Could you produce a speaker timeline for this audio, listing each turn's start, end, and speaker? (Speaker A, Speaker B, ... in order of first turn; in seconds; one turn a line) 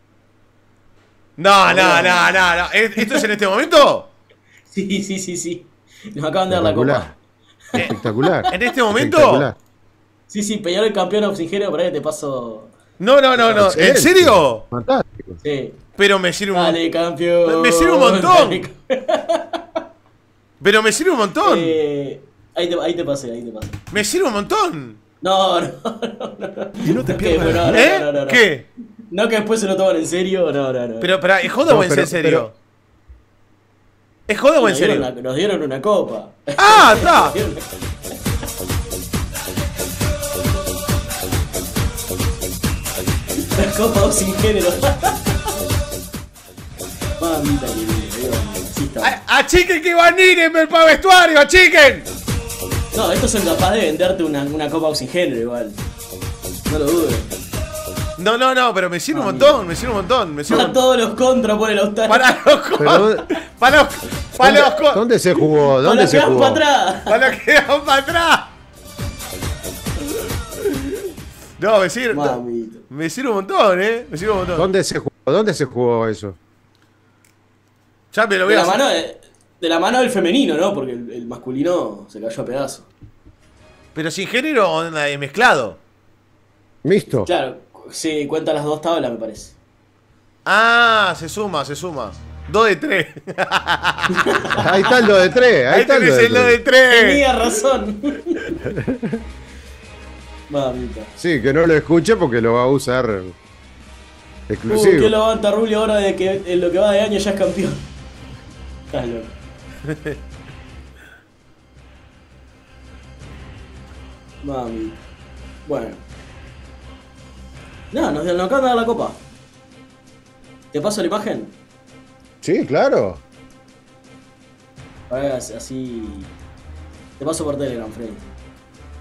Speaker A: 1.4-4.1
Speaker B: 1.7-3.3
Speaker B: 4.7-7.1
Speaker C: 6.5-7.1
Speaker B: 7.8-8.5
Speaker A: 7.8-9.5
Speaker C: 7.8-9.6
Speaker B: 10.3-12.7
Speaker A: 13.0-14.6
Speaker C: 13.4-15.4
Speaker B: 15.4-15.8
Speaker A: 16.0-16.8
Speaker B: 16.5-19.6
Speaker A: 17.5-18.7
Speaker A: 20.6-21.8
Speaker B: 21.4-23.8
Speaker A: 23.9-25.0
Speaker B: 25.2-28.4
Speaker C: 26.9-27.7
Speaker A: 27.0-28.7
Speaker B: 29.1-31.3
Speaker A: 31.0-32.5
Speaker C: 31.7-32.5
Speaker A: 34.3-35.1
Speaker B: 34.6-37.7
Speaker A: 36.6-37.4
Speaker B: 43.4-45.5
Speaker B: 47.2-49.2
Speaker A: 49.0-52.1
Speaker B: 52.9-55.8
Speaker B: 56.7-57.3
Speaker A: 58.2-60.8
Speaker B: 59.1-59.6
Speaker B: 60.5-62.3
Speaker A: 62.1-65.0
Speaker C: 62.8-63.2
Speaker C: 64.4-66.6
Speaker B: 65.7-67.3
Speaker A: 67.1-68.5
Speaker A: 70.6-71.0
Speaker A: 71.6-72.4
Speaker B: 72.1-72.8
Speaker A: 72.9-74.7
Speaker C: 74.6-76.4
Speaker A: 78.1-78.8
Speaker B: 78.5-82.9
Speaker A: 84.0-85.8
Speaker C: 86.8-87.3
Speaker B: 87.3-89.6
Speaker A: 90.5-94.4
Speaker B: 94.2-95.0
Speaker C: 94.6-96.6
Speaker A: 95.7-97.3
Speaker B: 96.9-98.6
Speaker C: 98.7-99.2
Speaker B: 100.5-101.1
Speaker C: 101.2-103.3
Speaker C: 104.5-105.2
Speaker B: 104.7-107.8
Speaker B: 108.9-109.3
Speaker B: 114.4-115.0
Speaker B: 115.7-116.0
Speaker B: 117.9-119.2
Speaker B: 120.7-121.5
Speaker C: 122.4-123.2
Speaker B: 125.1-126.3
Speaker B: 127.2-128.3